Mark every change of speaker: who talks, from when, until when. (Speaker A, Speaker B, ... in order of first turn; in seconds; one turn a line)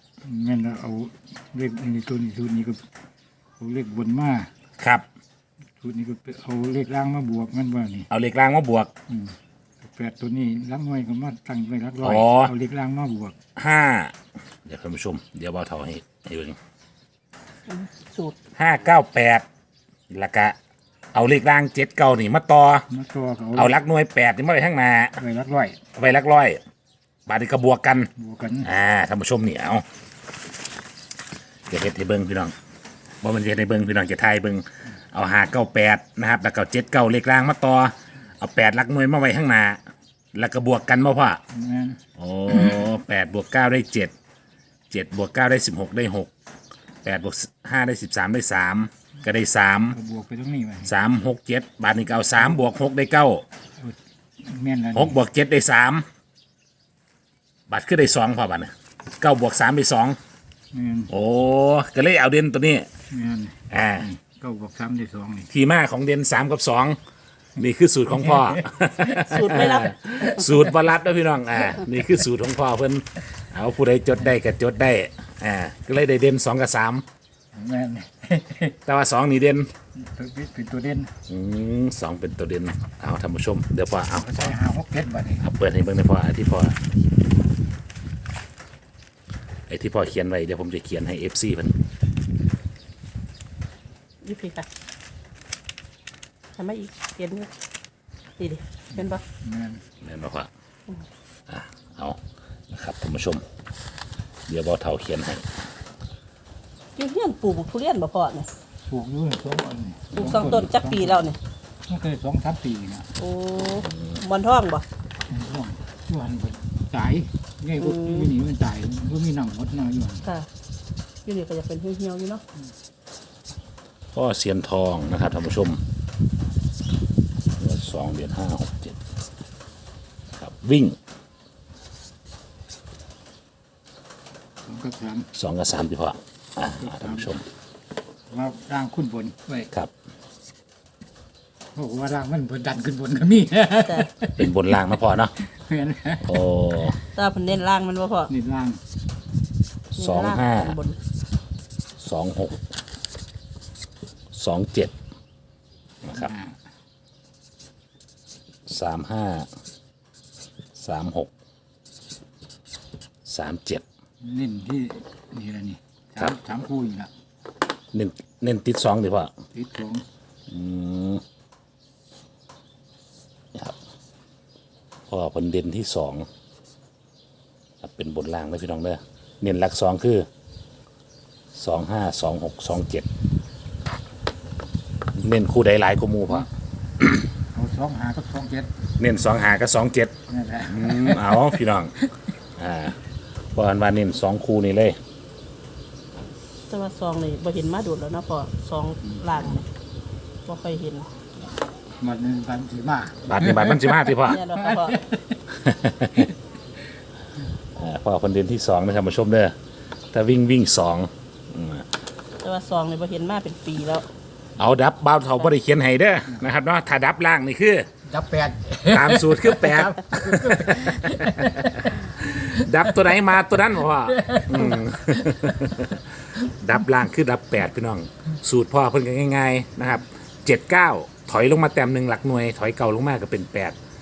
Speaker A: 0.2-2.8
Speaker A: 3.6-4.5
Speaker B: 4.8-5.0
Speaker A: 5.8-8.1
Speaker B: 8.1-8.9
Speaker A: 9.1-13.3
Speaker B: 12.0-12.5
Speaker B: 13.6-14.1
Speaker B: 14.6-16.6
Speaker C: 17.7-18.4
Speaker B: 18.6-19.4
Speaker B: 20.1-20.5
Speaker B: 21.1-22.9
Speaker A: 22.9-23.7
Speaker B: 23.5-25.2
Speaker A: 25.2-25.8
Speaker B: 25.9-26.6
Speaker B: 27.3-28.1
Speaker A: 28.1-28.7
Speaker B: 28.6-29.8
Speaker B: 31.7-32.5
Speaker B: 33.2-39.8
Speaker B: 40.3-41.4
Speaker A: 41.5-42.0
Speaker B: 42.2-44.1
Speaker B: 44.9-46.3
Speaker B: 47.0-50.0
Speaker A: 49.9-50.9
Speaker B: 50.8-53.4
Speaker A: 53.8-55.2
Speaker B: 54.9-56.0
Speaker B: 57.7-60.2
Speaker A: 60.7-61.1
Speaker B: 61.1-62.9
Speaker A: 63.1-65.5
Speaker B: 63.7-64.1
Speaker B: 65.5-67.0
Speaker B: 67.6-77.0
Speaker A: 68.2-69.5
Speaker C: 69.1-70.4
Speaker A: 77.5-78.8
Speaker B: 78.8-79.7
Speaker A: 79.9-81.1
Speaker B: 81.3-84.5
Speaker A: 84.2-85.4
Speaker B: 85.4-86.8
Speaker B: 89.7-91.8
Speaker C: 94.2-94.7
Speaker C: 96.5-97.5
Speaker C: 98.4-99.2
Speaker A: 99.4-99.8
Speaker B: 100.0-100.5
Speaker B: 101.5-102.2
Speaker B: 102.7-103.4
Speaker B: 104.5-105.5
Speaker C: 107.0-108.5
Speaker A: 108.8-111.3
Speaker C: 110.1-111.4
Speaker A: 111.9-113.1
Speaker C: 113.2-114.8
Speaker A: 115.3-120.3
Speaker C: 117.8-118.3
Speaker C: 121.2-122.4
Speaker B: 124.1-125.8
Speaker B: 127.6-129.0
Speaker B: 130.4-131.0
Speaker A: 134.6-135.3
Speaker B: 135.3-137.4
Speaker A: 136.8-137.3
Speaker A: 138.3-139.7
Speaker A: 141.7-144.7
Speaker C: 143.8-144.1
Speaker B: 144.4-145.3
Speaker A: 145.5-146.3
Speaker B: 146.2-147.0
Speaker C: 147.1-148.3
Speaker A: 148.3-148.8
Speaker C: 149.9-151.0
Speaker B: 150.0-150.8
Speaker B: 152.0-152.6
Speaker B: 154.3-154.9
Speaker B: 156.0-156.3
Speaker A: 156.1-156.5
Speaker B: 158.7-159.5
Speaker B: 160.8-161.3
Speaker B: 163.2-163.8
Speaker A: 164.2-167.1
Speaker B: 167.9-169.3
Speaker A: 169.5-170.0
Speaker B: 170.5-171.2
Speaker B: 175.1-176.3
Speaker B: 177.8-180.3
Speaker B: 181.5-183.1
Speaker B: 185.2-186.5
Speaker A: 187.5-188.7
Speaker B: 189.0-190.1
Speaker A: 190.3-191.6
Speaker B: 190.7-191.9
Speaker B: 192.6-193.0
Speaker B: 193.5-195.0
Speaker C: 196.7-199.6
Speaker C: 200.4-201.1
Speaker A: 202.0-205.4
Speaker B: 203.3-204.4
Speaker C: 204.2-205.0
Speaker B: 205.6-206.3
Speaker B: 207.8-209.5
Speaker B: 210.1-211.8
Speaker C: 212.4-214.1
Speaker B: 214.6-217.9
Speaker A: 218.1-222.6
Speaker B: 218.9-233.8
Speaker A: 224.1-225.3